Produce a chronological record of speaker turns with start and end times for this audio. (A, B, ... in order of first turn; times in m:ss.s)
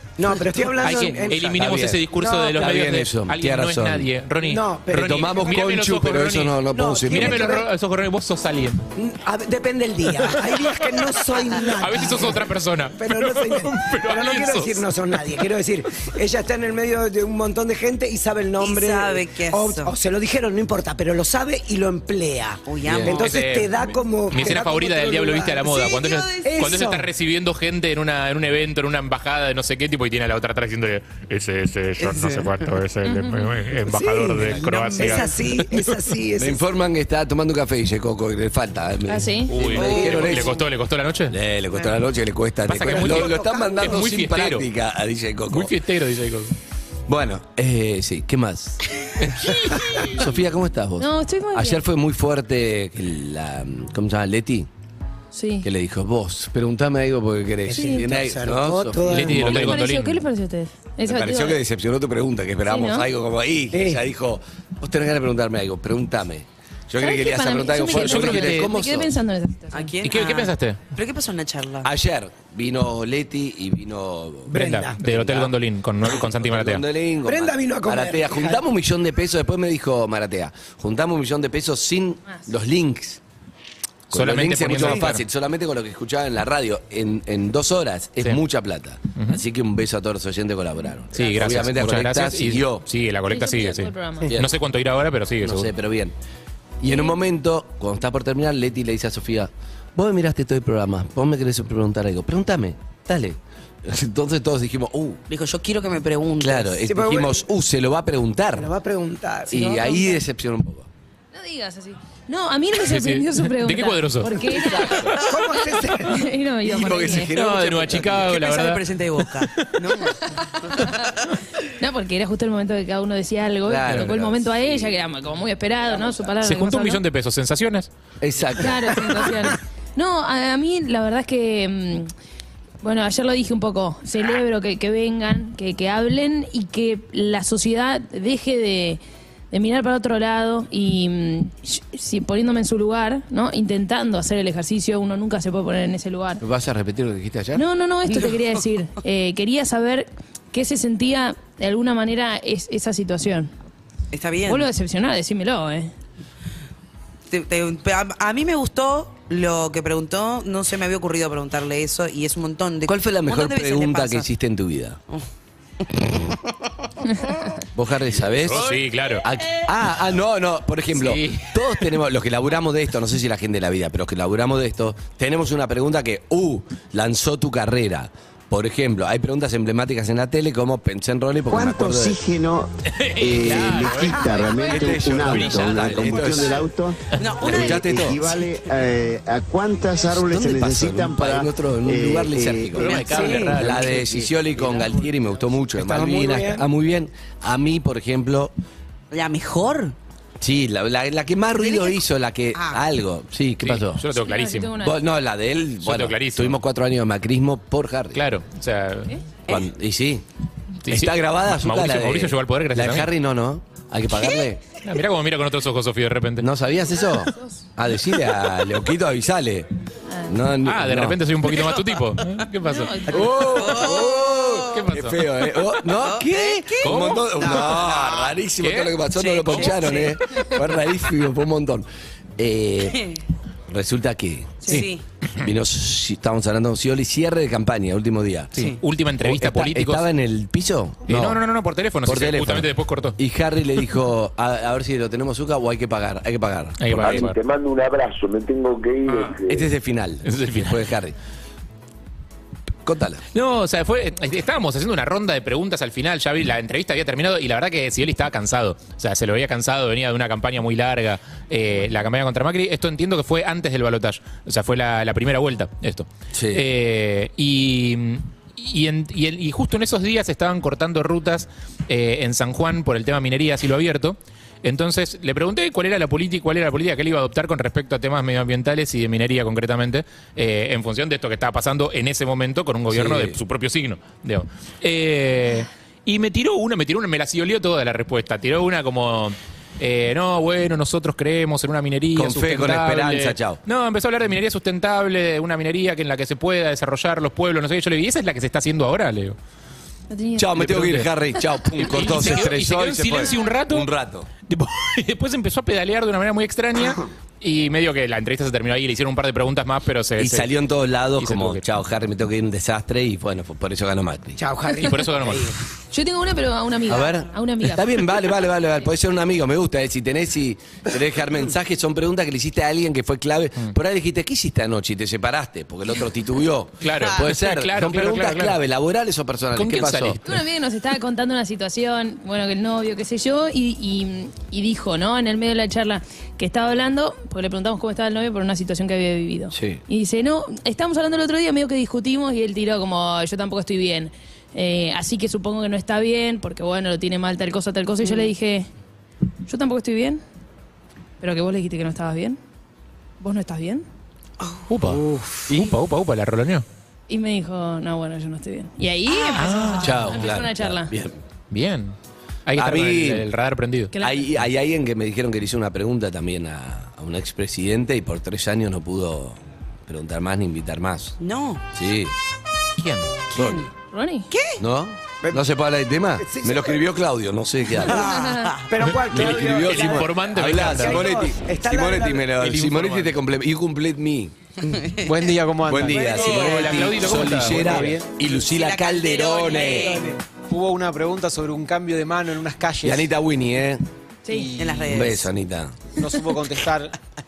0:00.2-0:02.6 A
0:00.8-0:08.8 B
0:01.4-0:02.0 C
0:02.5-0:04.1 C
0:04.4-0:05.6 A
0:05.0-0:07.4 C
0:06.8-0:07.6 A
0:09.0-0:25.8 A
0:11.6-0:14.8 B
0:18.6-0:19.9 D
0:22.7-0:23.3 D
0:22.8-0:23.1 C
0:23.1-0:35.9 B
0:25.6-0:26.7 D
0:26.4-0:27.1 A
0:32.0-0:32.5 D
0:33.0-0:33.5 E
0:33.8-0:36.6 A
0:36.4-0:40.6 C
0:39.1-0:39.5 E
0:39.5-0:41.4 B
0:39.7-0:40.6 D
0:41.3-0:45.7 C
0:42.7-0:44.7 B
0:42.8-0:44.0 A
0:45.5-0:46.5 B
0:47.1-0:54.7 C
0:51.0-0:51.8 E
0:55.3-0:55.7 E
0:55.6-0:59.8 C
0:57.7-0:59.7 A
0:57.7-0:58.0 E
0:59.0-1:00.2 B
0:59.4-1:01.6 E
1:01.0-1:09.1 C
1:02.7-1:03.0 E
1:03.7-1:04.0 A
1:07.0-1:09.9 E
1:08.0-1:08.6 B
1:09.7-1:11.9 D
1:10.0-1:10.8 B
1:11.8-1:23.2 C
1:14.5-1:15.0 A
1:14.5-1:16.8 B
1:17.2-1:18.6 A
1:24.1-1:32.8 C
1:24.1-1:25.2 B
1:29.2-1:29.4 B
1:31.1-1:35.7 B
1:33.3-1:34.3 E
1:34.3-1:34.6 C
1:35.4-1:36.1 C
1:36.8-1:45.2 C
1:36.9-1:37.1 E
1:45.3-1:46.8 D
1:46.4-1:48.7 C
1:46.9-1:47.4 A
1:48.6-1:50.2 A
1:49.5-1:50.9 C
1:51.3-1:57.3 E
1:52.8-1:55.1 B
1:55.1-1:56.2 A
1:56.6-1:58.2 C
1:57.3-1:59.6 B
1:57.9-2:00.1 D
2:01.8-2:07.0 E
2:03.6-2:05.0 C
2:06.4-2:07.9 B
2:08.2-2:09.0 C
2:08.6-2:12.1 E
2:12.8-2:19.0 E
2:19.5-2:26.4 E
2:26.4-2:27.6 C
2:27.5-2:33.5 E
2:28.1-2:28.4 D
2:34.1-2:34.7 D
2:34.5-2:35.9 E
2:37.3-2:44.3 D
2:42.9-2:45.0 C
2:47.1-2:47.4 E
2:47.7-3:02.3 C
2:48.2-2:49.3 B
2:50.9-2:51.8 B
3:01.5-3:02.7 F
3:01.6-3:02.1 A
3:02.9-3:06.5 B
3:03.2-3:06.9 F
3:04.0-3:04.4 A
3:04.4-3:04.8 E
3:04.5-3:06.7 C
3:07.2-3:08.7 D
3:07.4-3:08.3 C
3:07.5-3:12.7 F
3:10.0-3:18.5 C
3:12.7-3:14.3 B
3:12.8-3:13.9 A
3:13.0-3:13.3 D
3:15.8-3:16.6 A
3:19.1-3:19.9 D
3:20.4-3:24.0 C
3:21.6-3:22.0 D
3:22.5-3:22.8 D
3:23.6-3:24.7 B
3:24.2-3:25.0 E
3:24.8-3:28.2 C
3:25.8-3:26.6 B
3:28.1-3:29.1 B
3:29.5-3:30.2 C
3:30.8-3:33.1 B
3:30.9-3:34.6 C
3:34.8-3:36.5 B
3:36.4-3:39.7 C
3:37.3-3:37.6 E
3:40.1-3:40.3 E
3:40.3-3:41.2 C
3:40.6-3:43.6 B
3:42.6-3:43.5 E
3:43.1-3:51.8 C
3:43.3-3:44.8 D
3:44.7-3:45.3 B
3:45.9-3:48.4 D
3:46.8-3:47.8 B
3:48.6-3:48.9 B
3:49.2-3:50.2 D
3:52.4-3:53.0 C
3:52.9-3:53.2 D
3:53.7-3:58.5 C
3:54.6-3:55.0 D
3:58.5-4:00.0 B
3:59.2-4:01.4 C
4:01.1-4:03.2 B
4:02.0-4:07.3 C
4:06.8-4:07.4 B
4:07.0-4:09.7 G
4:09.3-4:11.1 C
4:10.2-4:10.9 B
4:12.8-4:13.2 C
4:13.3-4:59.4 B
4:26.3-4:26.6 C
4:42.9-4:43.4 C
4:52.1-4:53.6 C
5:00.1-5:00.5 E
5:00.4-5:04.3 C
5:00.6-5:01.1 B
5:01.8-5:03.9 B
5:04.5-5:10.5 B
5:10.2-5:14.4 C
5:11.2-5:11.6 B
5:14.4-5:15.6 A
5:14.8-5:15.5 B
5:15.9-5:18.0 E
5:16.9-5:30.2 C
5:26.8-5:28.6 B
5:29.6-5:30.4 B
5:30.2-5:48.7 E
5:39.5-5:39.8 C
5:49.4-5:50.2 E
5:51.2-5:52.4 E
5:53.2-5:53.8 E
5:54.4-5:54.6 D
5:54.7-5:56.6 B
5:57.1-6:00.9 E
5:59.2-5:59.5 D
5:59.3-6:00.0 B
5:59.8-6:01.2 C
6:01.5-6:03.9 B
6:02.6-6:03.3 C
6:03.9-6:04.2 E
6:04.0-6:11.1 C
6:11.2-6:11.6 D
6:11.7-6:12.1 C
6:12.8-6:13.2 B
6:13.3-6:13.6 C
6:13.4-6:13.6 D
6:13.9-6:14.3 E
6:14.3-6:14.6 D
6:14.6-6:18.0 C
6:16.2-6:16.8 A
6:17.9-6:18.6 D
6:17.9-6:18.5 E
6:18.7-6:22.3 A
6:18.8-6:21.2 B
6:19.1-6:24.3 C
6:22.4-6:23.2 B
6:24.7-6:25.1 D
6:25.0-6:28.1 H
6:25.6-6:30.0 C
6:26.1-6:26.6 D
6:26.1-6:27.8 B
6:28.2-6:30.0 D
6:29.7-6:30.2 A
6:30.4-6:33.1 H
6:32.8-6:33.8 C
6:34.2-6:34.5 E
6:34.3-6:35.0 H
6:34.6-6:35.3 D
6:34.8-6:35.8 C
6:35.9-6:37.0 H